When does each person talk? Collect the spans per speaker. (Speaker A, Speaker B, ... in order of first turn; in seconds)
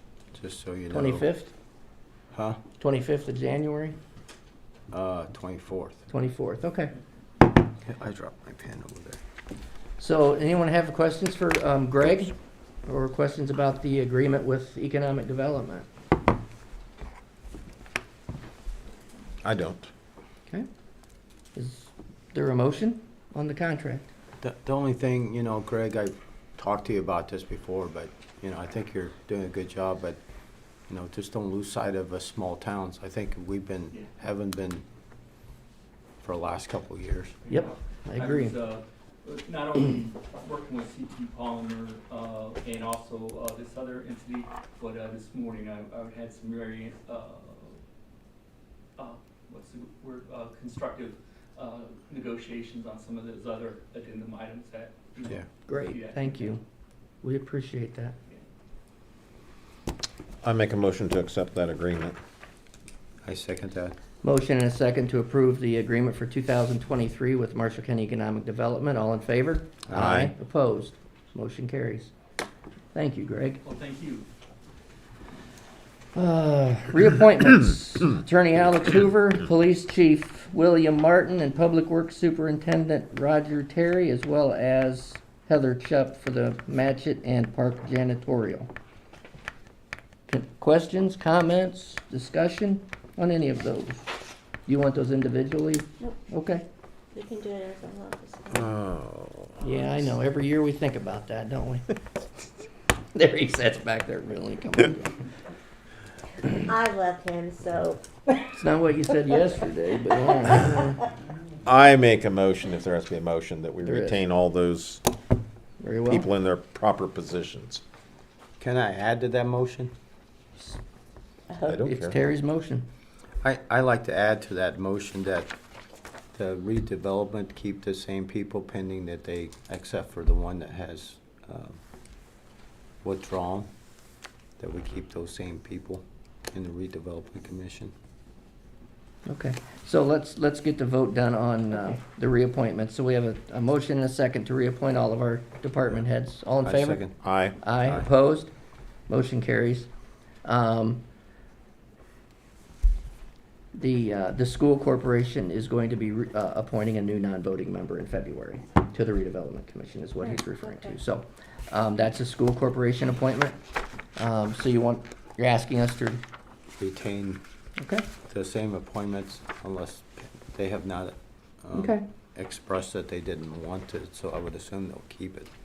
Speaker A: 0.3-1.3, 2.3-2.6, 4.9-6.0, 7.8-9.2, 24.4-30.2, 30.9-34.8, 36.2-37.4, 63.2-64.0, 118.6-119.9, 123.4-125.5, 126.3-131.8, 133.0-133.7, 134.6-137.9, 146.6-147.2, 147.8-148.1, 166.8-167.4, 168.2-175.5
Speaker B: 0.9-1.5, 2.8-4.0, 6.1-6.9, 10.0-15.8, 21.5-24.1, 37.5-38.5, 55.7-56.6, 57.2-58.1, 64.2-72.1, 72.9-73.6, 76.1-88.7, 90.3-94.0, 94.7-96.6, 99.6-101.9, 103.1-105.2, 108.5-111.0, 113.8-114.2, 115.8-116.3, 121.9-122.8, 139.2-148.5, 149.1-149.9, 150.4-151.0, 153.7-163.6, 164.2-166.2, 167.8-168.1, 171.7-172.0
Speaker C: 19.4-19.9, 60.4-62.2, 69.9-70.3, 98.5-99.6, 111.6-115.0, 116.1-117.8, 121.7-122.1, 147.2-147.6
Speaker D: 37.4-47.8, 49.0-56.6, 73.6-74.3
Speaker E: 97.1-98.7, 106.4-108.5, 121.5-121.8, 160.2-161.0